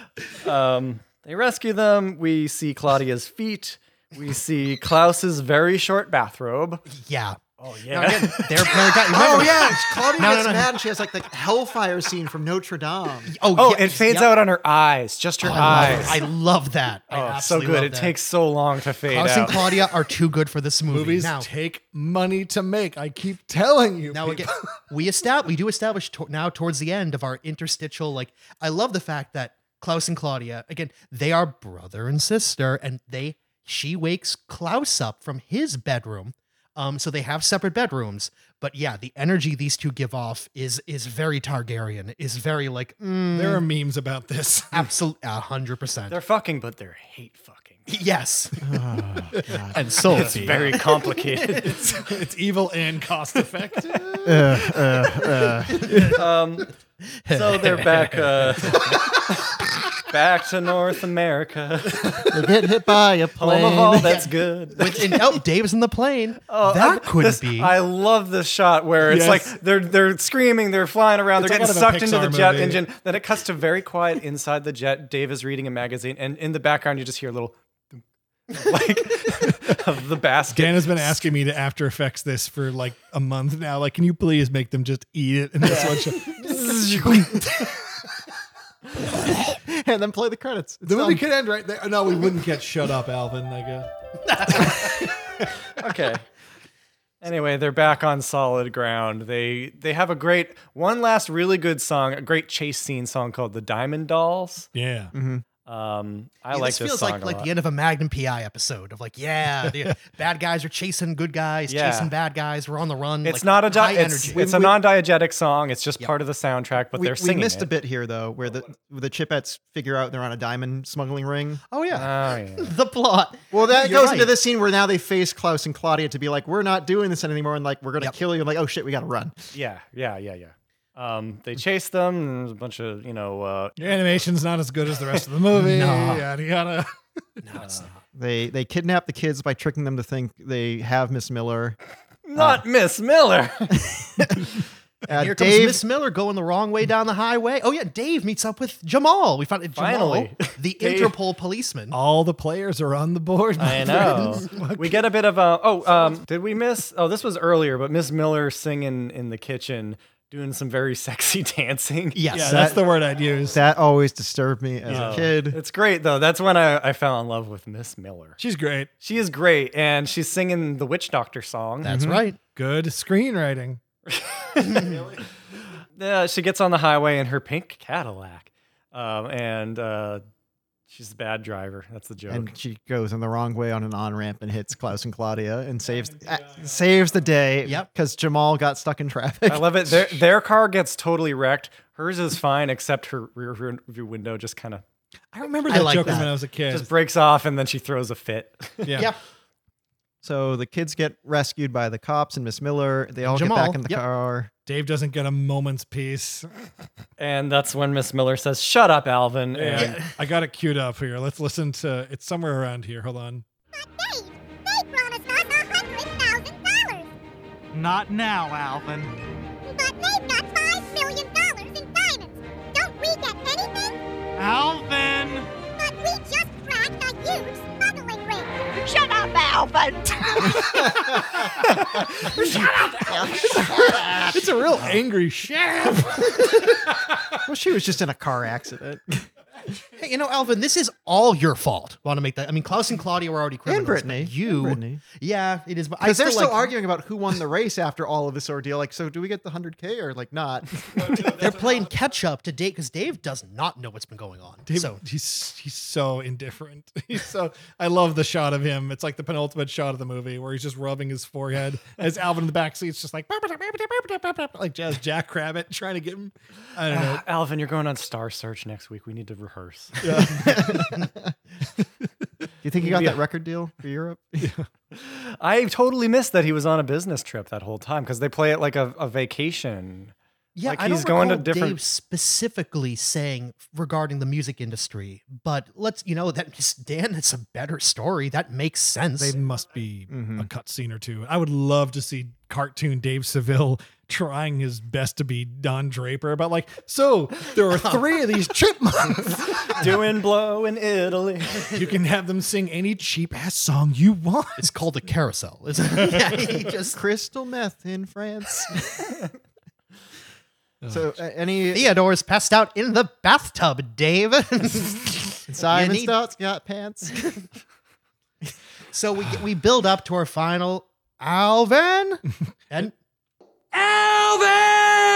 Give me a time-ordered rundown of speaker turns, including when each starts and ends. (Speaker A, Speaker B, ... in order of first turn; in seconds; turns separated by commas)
Speaker A: 0.4-6.8, Speaker B: 6.9-10.7, Speaker A: 7.6-8.9, Speaker C: 9.1-13.3, Speaker B: 13.3-14.3, Speaker A: 13.5-16.2, Speaker B: 15.4-18.1, Speaker A: 17.1-19.8, Speaker B: 19.1-21.5, Speaker D: 20.9-24.7, Speaker B: 24.1-43.6, Speaker D: 43.3-44.9, Speaker B: 44.7-46.1, Speaker A: 46.1-47.9, Speaker B: 47.9-48.6, Speaker C: 48.6-49.8, Speaker D: 49.3-50.6, Speaker B: 49.7-52.0, Speaker A: 50.0-51.9, Speaker D: 52.0-55.3, Speaker C: 54.2-56.0, Speaker B: 55.7-56.2, Speaker D: 55.8-56.2, Speaker A: 56.1-56.7, Speaker B: 57.2-58.2, Speaker A: 57.3-59.2, Speaker A: 60.1-62.3, Speaker C: 62.3-64.1, Speaker A: 63.4-65.4, Speaker B: 63.4-67.7, Speaker A: 66.5-81.3, Speaker D: 69.1-69.6, Speaker D: 71.4-72.8, Speaker D: 80.5-87.4, Speaker A: 85.6-87.3, Speaker C: 86.5-87.1, Speaker C: 89.5-91.2, Speaker D: 90.8-93.9, Speaker B: 94.3-95.1, Speaker A: 95.8-96.2, Speaker A: 97.2-104.7, Speaker D: 104.7-105.1, Speaker C: 105.1-105.4, Speaker A: 105.7-107.5, Speaker B: 106.5-114.5, Speaker A: 111.7-112.1, Speaker A: 113.2-117.7, Speaker D: 114.3-114.7, Speaker C: 117.0-121.6, Speaker B: 121.7-124.3, Speaker A: 121.9-122.7, Speaker C: 123.5-129.3, Speaker A: 129.5-133.8, Speaker D: 133.8-136.9, Speaker B: 135.5-136.2, Speaker B: 137.4-138.0, Speaker C: 138.1-141.8, Speaker A: 142.2-144.1, Speaker C: 142.3-142.6, Speaker C: 145.1-145.8, Speaker B: 145.1-151.9, Speaker A: 149.7-151.1, Speaker D: 151.9-155.0, Speaker A: 153.6-162.2, Speaker B: 162.1-162.8, Speaker D: 162.3-163.6, Speaker C: 162.4-162.8, Speaker C: 163.5-165.6, Speaker D: 164.9-165.3, Speaker A: 164.9-168.4, Speaker D: 168.4-168.9, Speaker A: 169.0-171.9, Speaker B: 171.8-172.4, Speaker C: 171.8-172.2, Speaker D: 172.5-173.8, Speaker A: 174.1-175.0, Speaker B: 174.7-175.0, Speaker A: 176.0-180.2, Speaker A: 180.9-182.5, Speaker C: 182.3-190.2, Speaker A: 189.5-194.8, Speaker D: 195.3-196.9, Speaker B: 195.7-196.3, Speaker A: 196.7-199.0, Speaker D: 198.8-199.1, Speaker C: 200.2-204.5, Speaker B: 203.2-204.0, Speaker D: 204.7-206.5, Speaker A: 207.2-210.0, Speaker D: 209.5-213.4, Speaker B: 209.8-210.1, Speaker E: 213.8-217.1, Speaker F: 217.7-219.1, Speaker E: 219.7-224.0, Speaker F: 224.4-225.5, Speaker E: 225.8-228.6, Speaker F: 228.8-230.8, Speaker C: 230.7-231.4, Speaker C: 233.1-234.1, Speaker D: 233.4-236.7, Speaker C: 237.4-239.3, Speaker B: 240.0-246.7, Speaker C: 243.7-245.0, Speaker C: 246.0-251.4, Speaker B: 251.2-255.0, Speaker D: 254.7-267.2, Speaker A: 266.9-270.1, Speaker D: 270.0-270.8, Speaker C: 270.4-271.3, Speaker C: 272.6-274.5, Speaker A: 272.8-273.2, Speaker D: 274.4-274.7, Speaker A: 274.9-281.8, Speaker B: 280.6-289.4, Speaker D: 289.2-299.6, Speaker C: 290.1-290.5, Speaker B: 297.7-298.0, Speaker A: 299.6-301.7, Speaker D: 301.7-304.6, Speaker B: 304.6-307.0, Speaker C: 306.9-308.9, Speaker D: 310.8-311.1, Speaker C: 310.9-311.9, Speaker B: 311.7-316.1, Speaker C: 315.5-317.2, Speaker B: 318.9-322.9, Speaker F: 323.8-325.0